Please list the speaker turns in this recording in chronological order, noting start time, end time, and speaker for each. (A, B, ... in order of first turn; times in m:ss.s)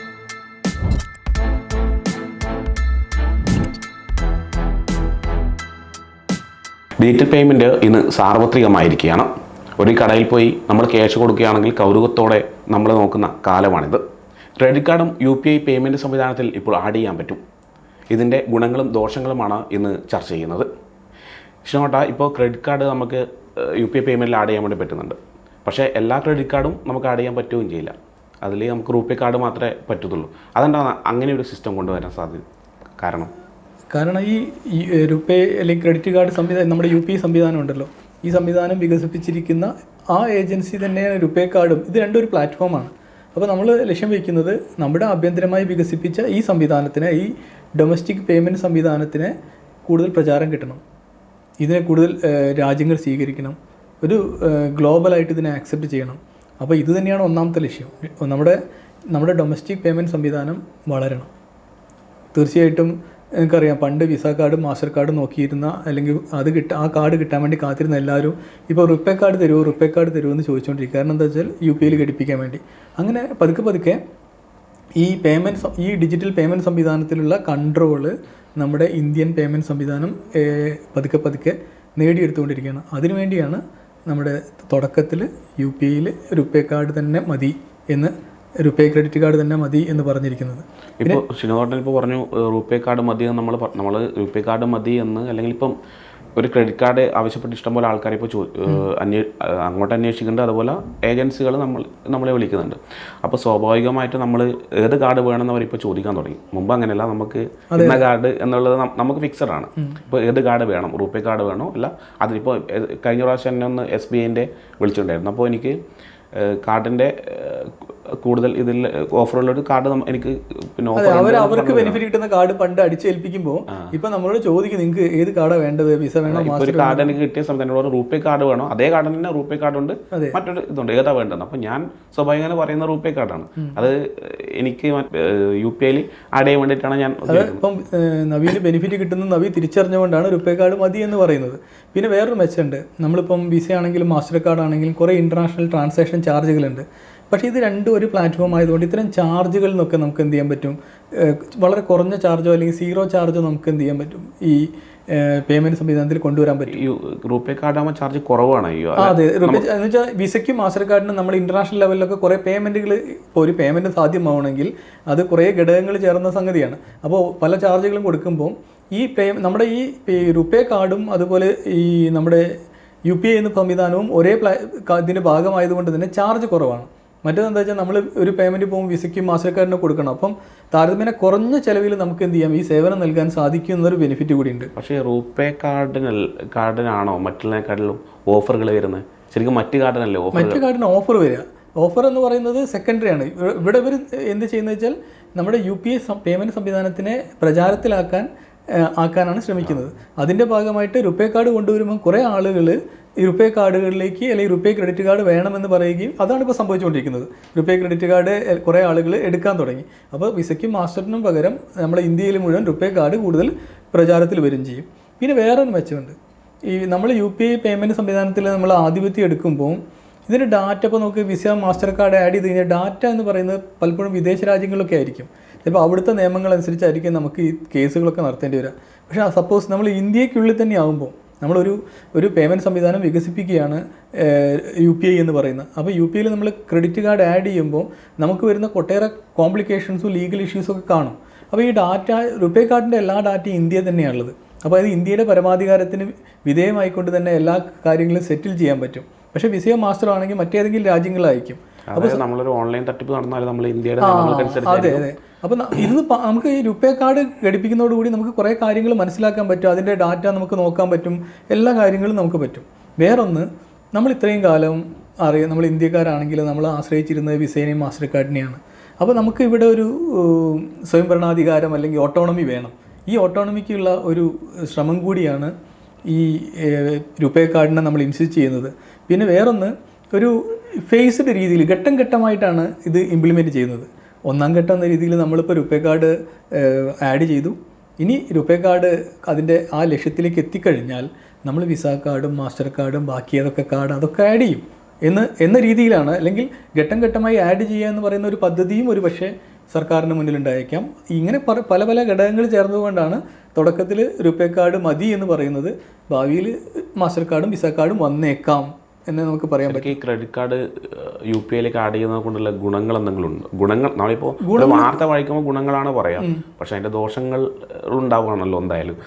0:07.0-0:14.0 A
0:14.6-0:17.4 A
0:18.1-0:20.7 A
0:21.6-0:32.4 A
0:33.0-0:33.3 A
0:33.9-0:49.3 B
0:49.8-0:50.8 B
0:51.6-0:58.6 B
0:59.1-1:01.3 B
1:02.3-1:14.0 B
1:15.0-1:31.2 B
1:31.0-1:35.8 A
1:36.4-1:55.8 A
1:47.7-1:48.0 B
1:56.3-2:02.0 A
2:00.9-2:07.1 B
2:06.3-2:17.6 A
2:10.1-2:10.4 B
2:17.3-2:36.8 B
2:36.7-2:39.6 A
2:39.0-2:52.5 B
2:53.1-3:04.7 B
3:04.8-3:10.6 A
3:10.3-3:36.2 B
3:36.7-4:12.2 B
4:11.9-4:15.0 A
4:14.0-4:35.5 B
4:36.1-5:09.9 B
5:09.6-5:19.0 A
5:14.4-5:15.0 B